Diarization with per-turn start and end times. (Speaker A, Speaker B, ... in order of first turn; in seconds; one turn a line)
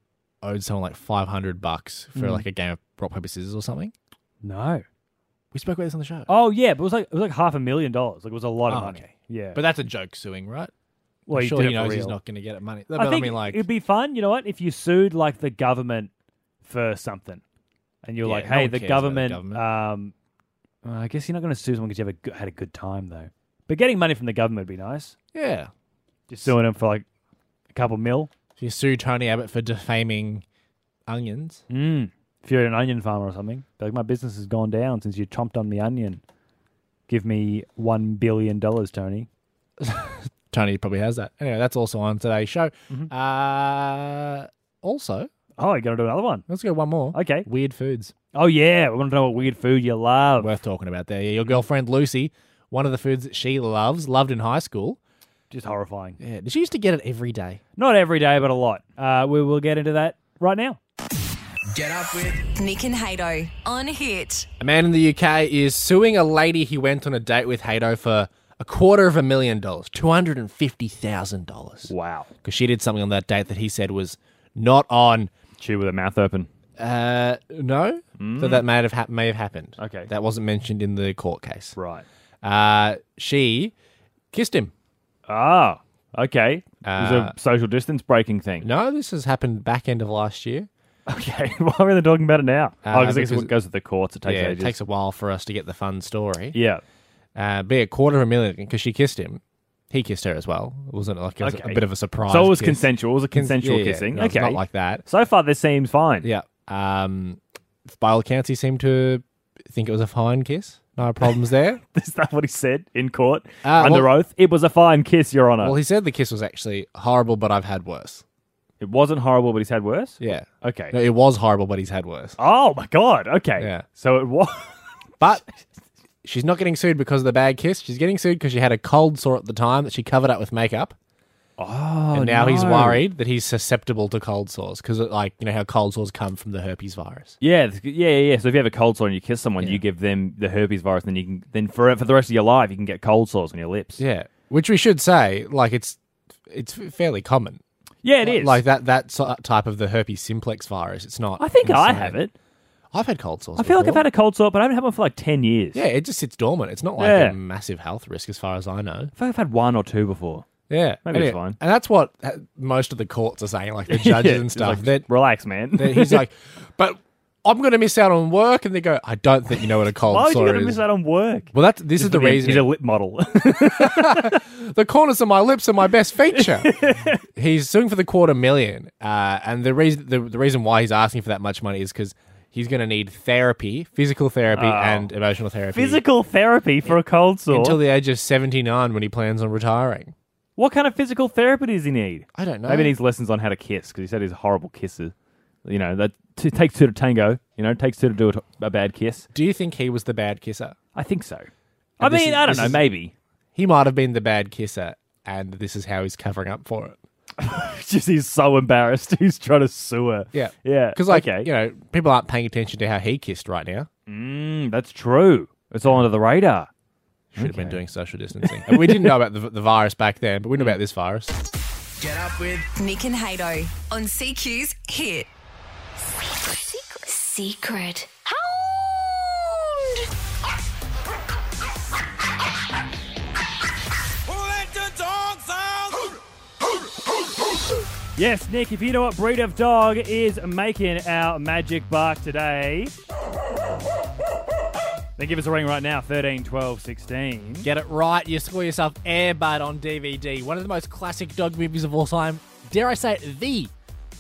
Speaker A: 0.4-3.9
Speaker B: 2.1-2.4
Speaker B: 4.4-4.8
Speaker A: 5.5-6.3
Speaker B: 6.3-9.6
Speaker A: 8.7-10.7
Speaker B: 11.3-12.2
Speaker A: 11.3-13.6
Speaker B: 12.9-16.1
Speaker B: 16.6-17.4
Speaker B: 18.0-20.1
Speaker A: 18.2-19.6
Speaker B: 20.8-25.1
Speaker A: 25.3-25.7
Speaker B: 26.3-27.0
Speaker B: 27.7-28.3
Speaker A: 28.6-30.4
Speaker A: 31.1-31.6
Speaker B: 31.7-36.2
Speaker B: 37.1-39.3
Speaker A: 39.8-45.3
Speaker B: 45.6-46.5
Speaker A: 46.5-48.1
Speaker B: 47.1-47.5
Speaker B: 48.3-50.5
Speaker A: 50.4-55.0
Speaker B: 55.5-56.2
Speaker A: 56.2-57.6
Speaker B: 57.8-60.8
Speaker C: 61.7-62.4
Speaker D: 62.5-64.5
Speaker A: 64.6-71.9
Speaker B: 71.9-72.3
Speaker A: 72.4-75.3
Speaker B: 75.6-76.5
Speaker A: 76.8-81.8
Speaker B: 78.2-78.7
Speaker B: 79.8-80.1
Speaker B: 81.8-82.0
Speaker A: 82.4-83.7
Speaker A: 84.3-84.7
Speaker B: 85.3-88.7
Speaker A: 86.8-87.3
Speaker A: 88.6-90.7
Speaker B: 91.1-94.8
Speaker A: 92.8-93.5
Speaker A: 94.2-96.6
Speaker B: 96.5-96.8
Speaker A: 97.3-105.0
Speaker B: 101.4-106.3
Speaker A: 106.2-111.8
Speaker B: 111.9-115.8
Speaker A: 113.6-114.1
Speaker A: 115.6-118.2
Speaker B: 118.8-121.0
Speaker A: 120.2-122.4
Speaker B: 122.4-124.8
Speaker A: 123.6-123.8
Speaker A: 125.2-125.5
Speaker A: 126.2-130.9
Speaker B: 131.6-133.1
Speaker A: 132.1-137.3
Speaker B: 137.4-144.0
Speaker A: 144.0-147.6
Speaker B: 148.0-148.6
Speaker A: 148.2-152.2
Speaker B: 151.4-152.3
Speaker A: 152.9-154.0
Speaker B: 153.6-155.8
Speaker A: 155.7-159.1
Speaker B: 157.0-157.4
Speaker B: 159.2-160.5
Speaker A: 160.7-165.0
Speaker B: 161.0-161.6
Speaker B: 163.9-166.2
Speaker A: 165.8-170.8
Speaker B: 170.1-174.4
Speaker A: 171.5-172.7
Speaker A: 173.4-186.0
Speaker B: 176.3-177.2
Speaker B: 184.5-185.1
Speaker B: 185.7-187.8
Speaker A: 187.5-190.1
Speaker B: 190.6-199.3
Speaker A: 192.3-192.9
Speaker A: 199.3-200.8
Speaker B: 200.9-203.1
Speaker A: 202.0-202.8
Speaker A: 203.5-207.0
Speaker B: 207.4-211.5
Speaker A: 210.3-213.9
Speaker B: 214.1-216.7
Speaker A: 217.3-221.3
Speaker B: 217.3-217.8
Speaker B: 218.4-219.2
Speaker C: 222.0-222.7
Speaker D: 222.8-225.3
Speaker D: 226.4-230.0
Speaker C: 234.3-235.9
Speaker B: 238.2-242.9
Speaker B: 245.2-247.7
Speaker A: 247.6-253.7